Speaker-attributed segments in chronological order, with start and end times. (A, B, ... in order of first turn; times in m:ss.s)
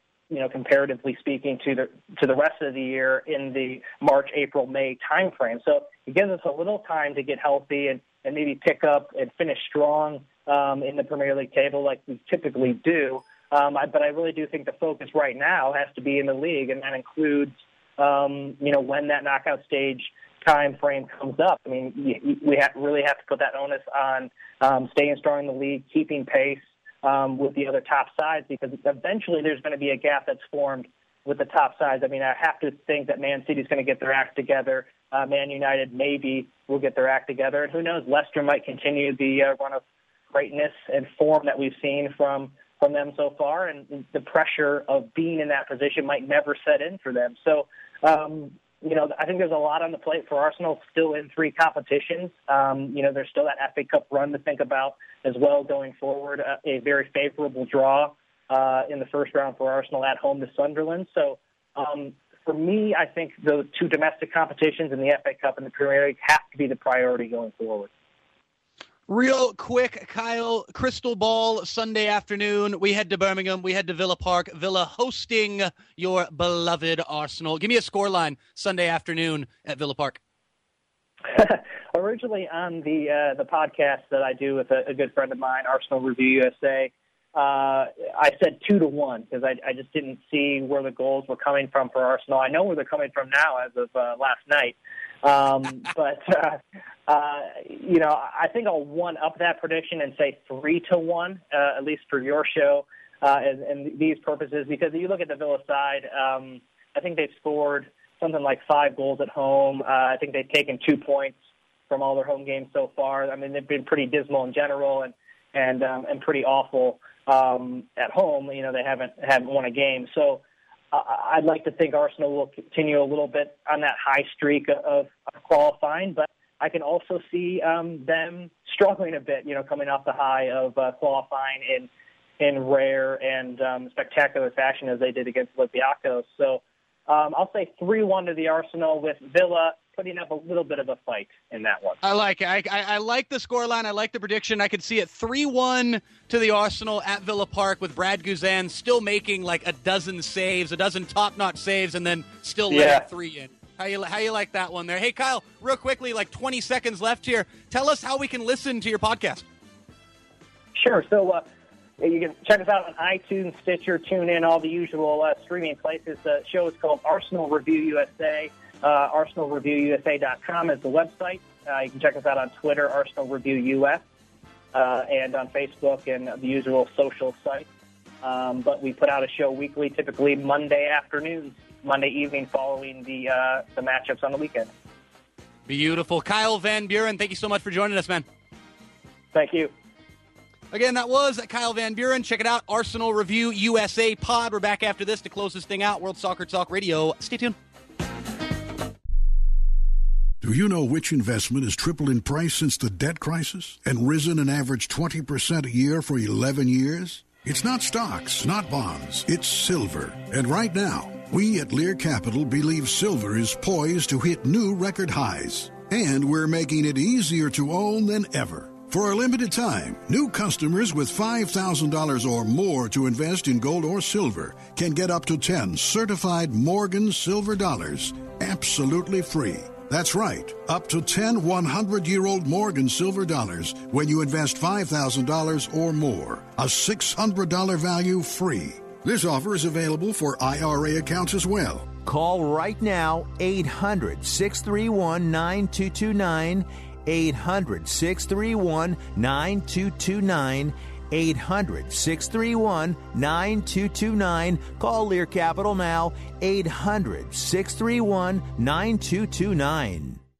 0:00.3-1:07.9 A
1:09.1-1:20.2 B
1:21.3-1:51.4 A
1:51.9-2:11.9 A
2:12.4-2:22.0 A
2:22.0-2:39.4 B
2:32.7-2:33.0 A
2:40.8-2:41.4 A
2:42.0-2:54.0 A
2:54.7-2:57.6 A
2:58.2-3:04.7 A
3:05.6-3:08.2 B
3:09.3-3:09.7 A
3:10.7-3:17.6 B
3:20.4-4:01.9 C
4:02.0-4:20.2 D